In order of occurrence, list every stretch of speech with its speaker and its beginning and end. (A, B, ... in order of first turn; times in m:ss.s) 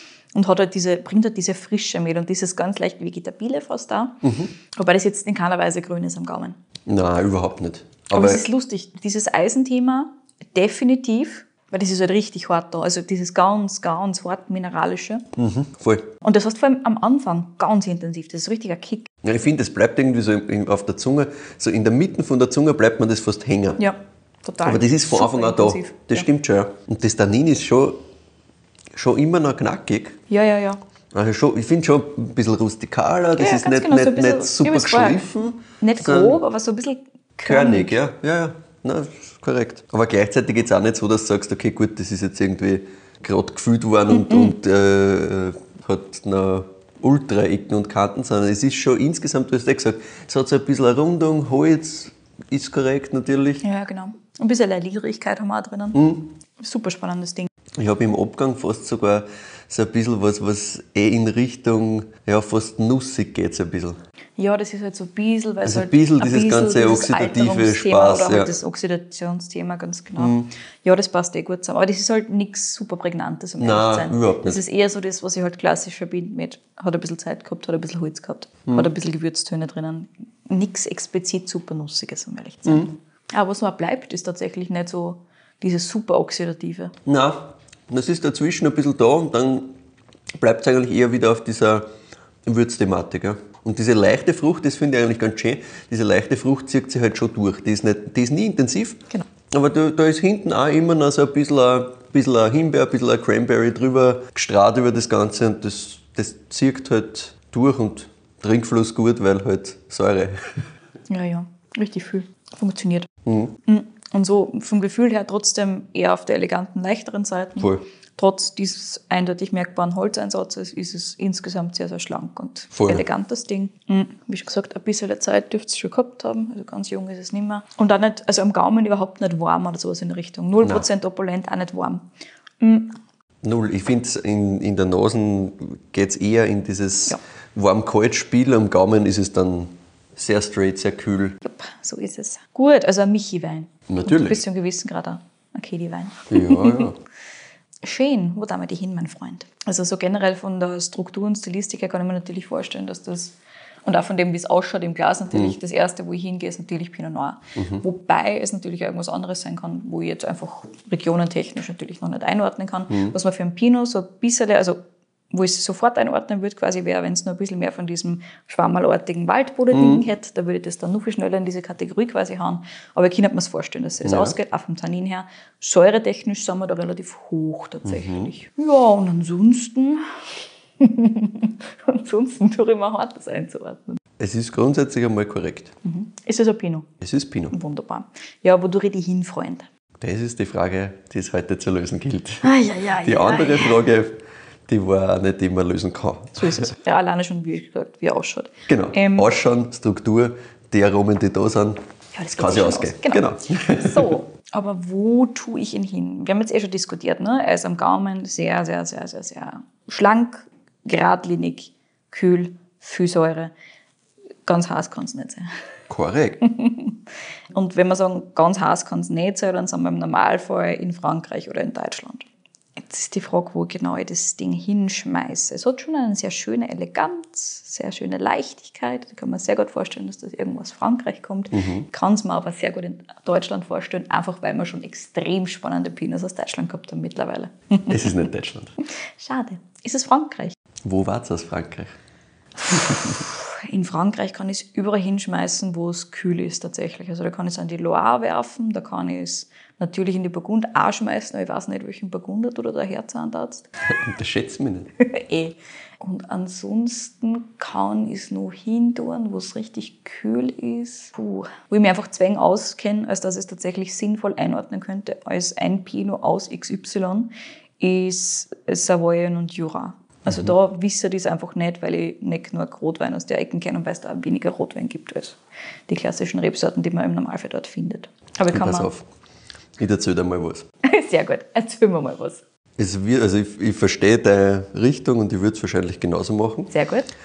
0:00.4-0:06.6 A
0:04.2-0:04.5 B
0:06.9-0:08.4 B
0:08.1-0:15.2 A
0:15.4-0:16.1 B
0:16.2-0:19.1 A
0:19.2-0:23.8 B
0:23.8-0:26.3 A
0:24.6-0:28.0 B
0:29.0-0:30.2 B
0:30.3-0:30.8 A
0:31.1-0:36.4 B
0:33.4-0:35.2 A
0:35.8-0:38.0 A
0:37.4-0:53.6 B
0:44.1-0:44.5 A
0:53.6-0:56.0 A
0:55.9-0:56.3 B
0:56.6-0:57.5 A
0:57.8-1:04.0 B
1:04.4-1:26.9 A
1:05.6-1:08.5 B
1:10.2-1:10.5 B
1:13.6-1:14.6 B
1:22.7-1:22.9 B
1:27.1-1:29.7 B
1:30.3-1:31.9 B
1:32.4-1:50.6 B
1:51.1-1:53.1 A
1:53.2-1:53.5 B
1:53.6-2:12.1 A
1:57.6-1:57.8 B
2:02.8-2:03.0 B
2:12.6-2:13.0 A
2:13.4-2:21.4 B
2:21.4-2:26.9 A
2:23.9-2:24.4 B
2:26.3-2:27.0 B
2:27.8-2:44.8 A
2:37.6-2:37.8 B
2:42.9-2:43.2 B
2:45.3-3:00.2 A
2:49.7-2:50.0 B
2:54.0-2:54.4 B
2:57.8-2:58.3 B
3:00.8-3:04.0 A
3:04.2-3:05.7 B
3:05.8-3:06.9 A
3:07.0-3:07.5 B
3:07.5-3:09.7 A
3:10.0-3:16.7 B
3:12.4-3:13.8 A
3:16.4-3:19.3 A
3:18.7-3:21.8 B
3:22.2-3:33.5 A
3:22.4-3:24.2 B
3:34.5-3:35.5 A
3:35.9-3:36.4 B
3:36.4-3:37.0 A
3:37.5-3:42.2 A
3:42.8-3:58.3 A
3:51.5-3:51.9 B
3:57.9-3:58.7 B
3:59.2-4:00.6 A
4:00.8-4:02.0 B
4:02.6-4:13.7 A
4:02.7-4:03.2 B
4:13.9-4:14.9 B
4:15.0-4:38.9 A
4:30.3-4:30.5 B
4:38.5-4:39.1 B
4:39.8-4:40.6 B
4:40.8-4:42.4 A
4:42.8-4:46.7 B
4:46.7-4:47.1 A